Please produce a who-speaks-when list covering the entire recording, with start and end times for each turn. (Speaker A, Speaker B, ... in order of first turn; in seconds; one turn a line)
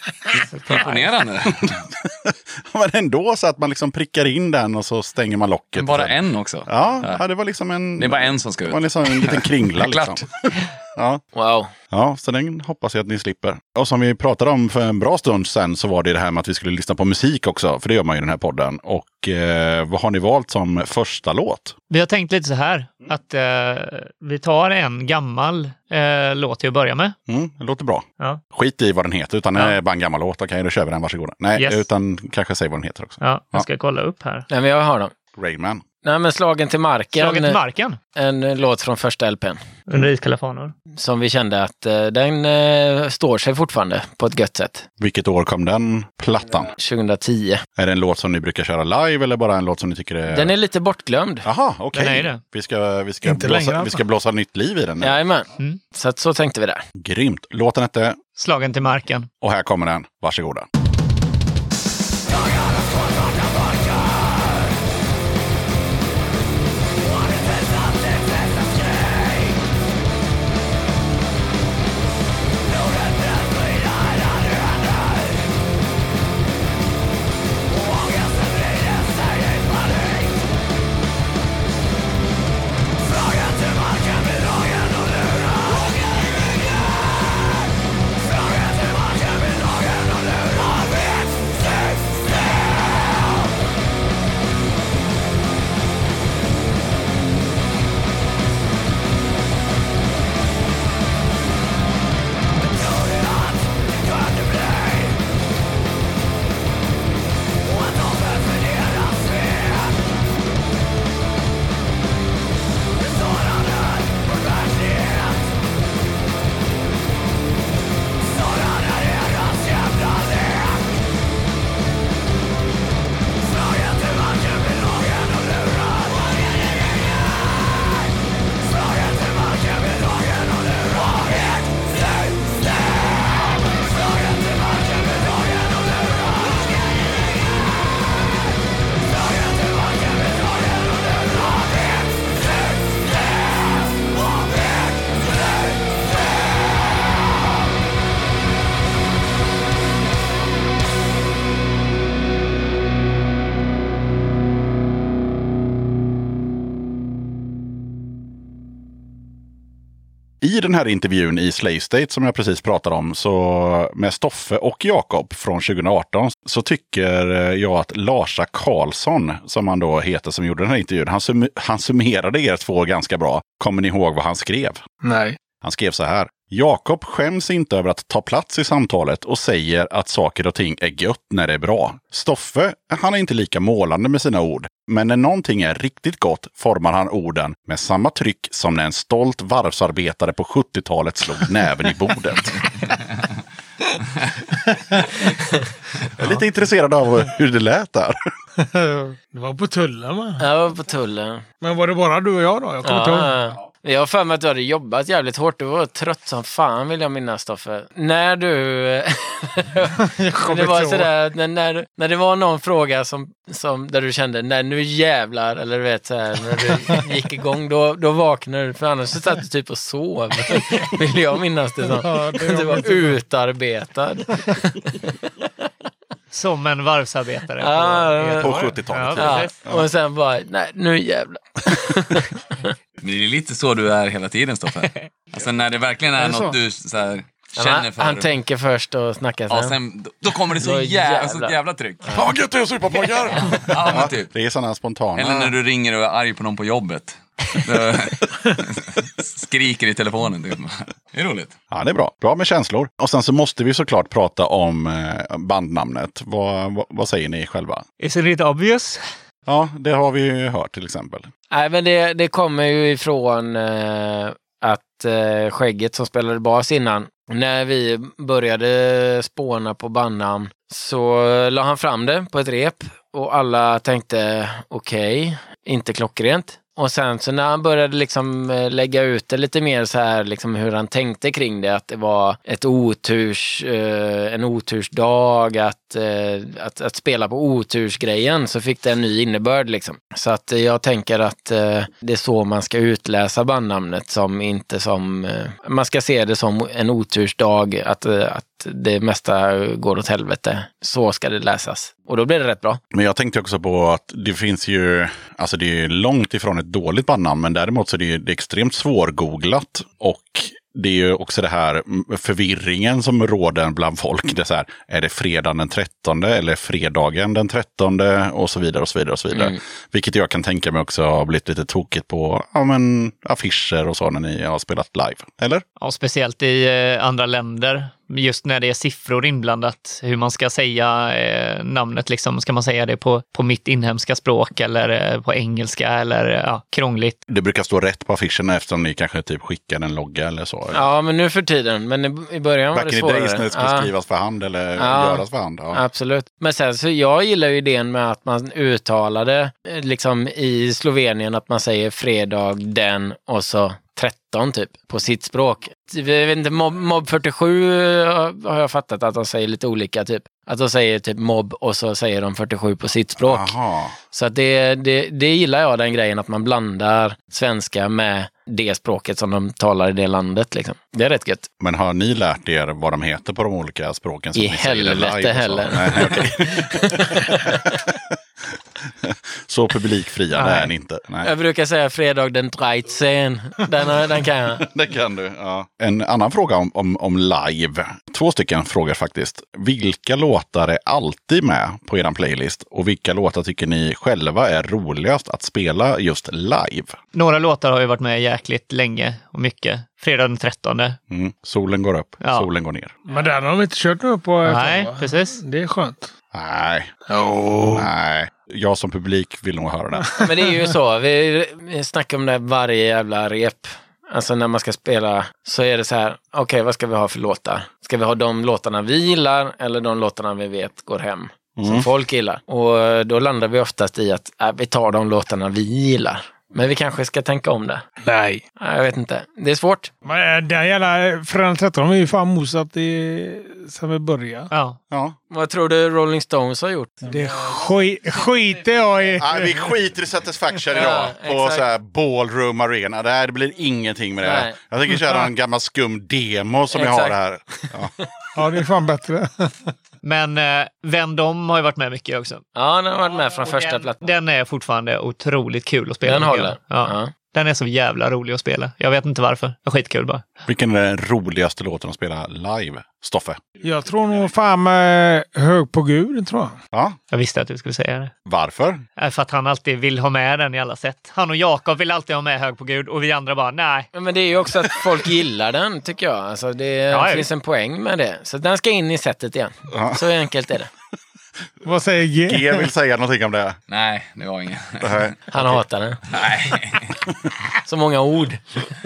Speaker A: 0.5-1.1
Speaker B: 0.7-1.7
Speaker C: 1.5-11.2
Speaker B: 5.8-7.2
Speaker B: 8.0-10.2
Speaker D: 11.3-11.7
Speaker C: 11.9-21.8
Speaker A: 21.9-27.2
Speaker C: 27.3-33.7
Speaker A: 31.6-31.9
Speaker A: 33.2-34.5
Speaker D: 34.5-35.1
Speaker C: 35.4-35.8
Speaker D: 36.0-37.6
Speaker A: 37.1-38.0
Speaker D: 38.1-39.8
Speaker A: 39.9-40.7
Speaker D: 41.0-44.9
Speaker C: 45.0-46.7
Speaker D: 46.7-47.6
Speaker C: 47.8-50.5
Speaker D: 50.3-51.5
Speaker C: 51.4-55.2
Speaker A: 51.9-52.4
Speaker E: 53.2-54.0
Speaker D: 55.0-56.8
Speaker C: 57.0-58.2
Speaker A: 58.4-59.3
Speaker C: 59.4-60.7
Speaker C: 160.4-174.8
Speaker E: 175.0-175.4
Speaker C: 175.6-192.6
Speaker C: 196.2-198.2
Speaker E: 198.6-200.4
Speaker D: 200.4-201.4
Speaker E: 201.6-203.5
Speaker D: 202.8-225.0
Speaker E: 210.0-211.1
Speaker E: 221.9-223.2
Speaker A: 226.3-228.3
Speaker D: 227.6-232.7
Speaker C: 228.2-229.8
Speaker A: 228.9-229.6
Speaker B: 233.0-238.3
Speaker E: 236.2-236.5
Speaker D: 237.6-239.8
Speaker B: 239.5-242.2
Speaker D: 240.6-241.6
Speaker C: 242.1-245.5
Speaker B: 243.4-244.3
Speaker B: 245.2-251.6
Speaker C: 251.7-257.9
Speaker A: 258.0-259.0
Speaker C: 259.5-261.3
Speaker D: 261.5-302.8
Speaker C: 302.9-325.6
Speaker D: 319.3-319.6
Speaker A: 325.8-337.2
Speaker C: 337.3-340.9
Speaker D: 340.7-343.9
Speaker C: 342.7-345.8
Speaker D: 344.8-363.6
Speaker C: 363.2-364.0
Speaker D: 364.1-371.5
Speaker C: 371.6-378.2
Speaker D: 374.4-377.6
Speaker C: 378.9-381.3
Speaker D: 380.4-380.7
Speaker D: 381.2-384.6
Speaker C: 384.6-397.0
Speaker A: 397.1-401.0
Speaker C: 401.1-402.9
Speaker A: 402.2-402.5
Speaker E: 403.1-406.1
Speaker A: 404.4-405.4
Speaker C: 406.3-406.9
Speaker E: 407.1-407.9
Speaker C: 407.7-410.2
Speaker D: 410.2-427.9
Speaker C: 421.6-421.9
Speaker E: 428.0-428.4
Speaker D: 428.6-429.9
Speaker E: 430.1-434.5
Speaker A: 434.5-434.8
Speaker C: 434.9-435.2
Speaker D: 435.3-437.1
Speaker E: 437.0-439.6
Speaker C: 439.2-447.9
Speaker D: 440.7-441.6
Speaker D: 444.2-444.6
Speaker D: 446.7-447.2
Speaker E: 448.4-449.7
Speaker A: 450.0-452.4
Speaker D: 452.6-454.1
Speaker A: 453.1-460.3
Speaker D: 456.0-457.1
Speaker C: 460.5-463.4
Speaker E: 463.6-466.6
Speaker A: 467.1-468.1
Speaker C: 468.3-468.8
Speaker A: 469.0-473.9
Speaker D: 473.9-480.7
Speaker A: 476.9-477.3
Speaker C: 479.7-480.0
Speaker E: 481.6-482.7
Speaker C: 482.3-483.6
Speaker B: 483.7-485.1
Speaker C: 484.8-485.6
Speaker D: 485.3-486.0
Speaker B: 486.1-487.0
Speaker D: 487.6-488.7